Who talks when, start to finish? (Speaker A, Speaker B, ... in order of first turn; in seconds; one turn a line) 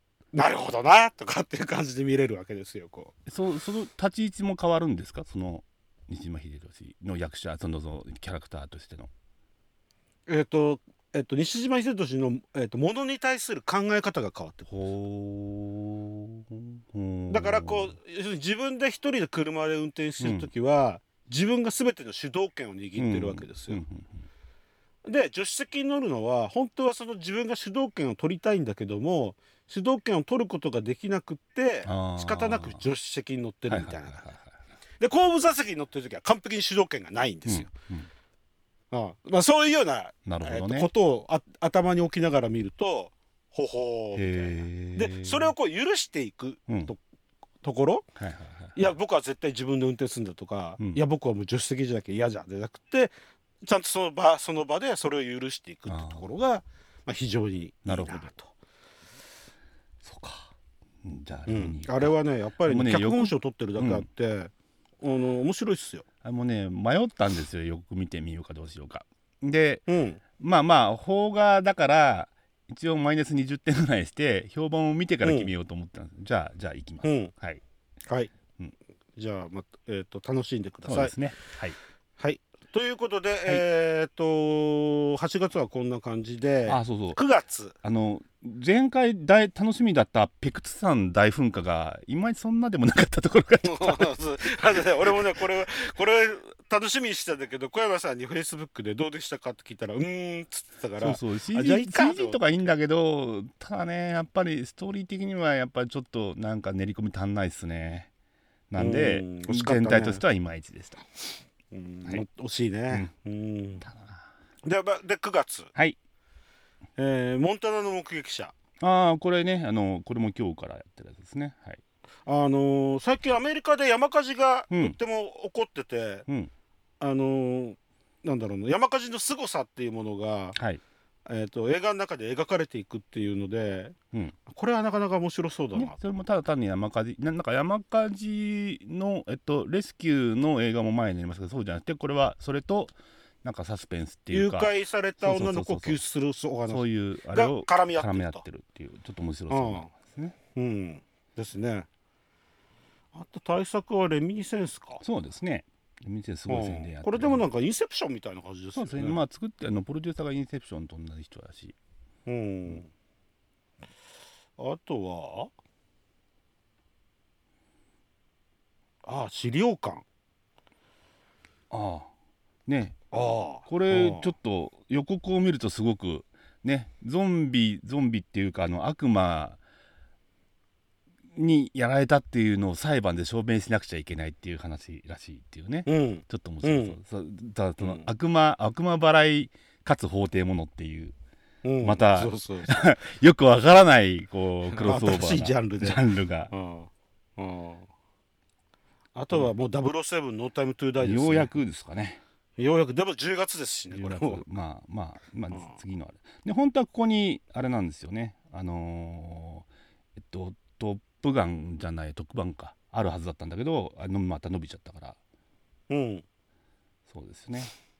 Speaker A: 0.3-3.1
Speaker B: 3.3-9.1
Speaker A: 10.3-14.7
Speaker B: 14.7-17.9
Speaker A: 17.3-23.8
Speaker B: 20.2-20.5
Speaker B: 23.0-24.3
Speaker A: 25.0-34.3
Speaker B: 31.9-32.8
Speaker B: 33.7-34.6
Speaker A: 35.0-37.7
Speaker B: 37.5-38.1
Speaker A: 38.9-47.0
Speaker B: 40.2-40.9
Speaker B: 44.1-45.5
Speaker B: 46.7-46.9
Speaker A: 47.6-48.1
Speaker B: 48.2-48.9
Speaker A: 48.8-58.4
Speaker B: 55.9-56.3
Speaker B: 57.9-58.5
Speaker B: 60.0-60.5
Speaker B: 61.0-64.1
Speaker A: 61.5-66.0
Speaker B: 66.2-77.6
Speaker A: 69.9-70.2
Speaker A: 75.2-75.5
Speaker A: 77.0-77.3
Speaker A: 79.2-81.1
Speaker B: 80.8-81.8
Speaker A: 82.2-87.8
Speaker B: 86.7-87.2
Speaker B: 87.8-95.3
Speaker A: 93.6-102.4
Speaker B: 101.0-108.1
Speaker B: 108.7-111.1
Speaker A: 108.8-110.2
Speaker A: 111.7-113.8
Speaker B: 113.8-114.2
Speaker A: 114.6-115.7
Speaker A: 117.0-118.5
Speaker B: 118.8-121.8
Speaker A: 122.3-126.3
Speaker B: 124.7-125.0
Speaker A: 127.0-130.6
Speaker B: 130.6-130.8
Speaker A: 131.3-136.0
Speaker B: 135.7-146.0
Speaker A: 144.3-148.4
Speaker B: 146.7-150.4
Speaker A: 149.5-149.9
Speaker A: 150.6-151.9
Speaker A: 153.1-155.0
Speaker B: 155.0-157.4
Speaker A: 156.5-159.2
Speaker B: 158.8-161.8
Speaker A: 162.3-162.9
Speaker A: 164.6-165.5
Speaker A: 169.0-170.0
Speaker B: 171.7-172.1
Speaker B: 172.7-173.0
Speaker A: 173.1-174.3
Speaker B: 173.6-179.6
Speaker B: 181.3-191.2
Speaker A: 185.9-187.0
Speaker A: 187.8-188.1
Speaker A: 191.6-192.8
Speaker B: 191.8-196.5
Speaker A: 194.8-197.9
Speaker A: 199.2-201.5
Speaker B: 201.0-202.2
Speaker A: 202.6-204.4
Speaker B: 203.9-215.2
Speaker A: 215.9-216.2
Speaker B: 217.1-217.7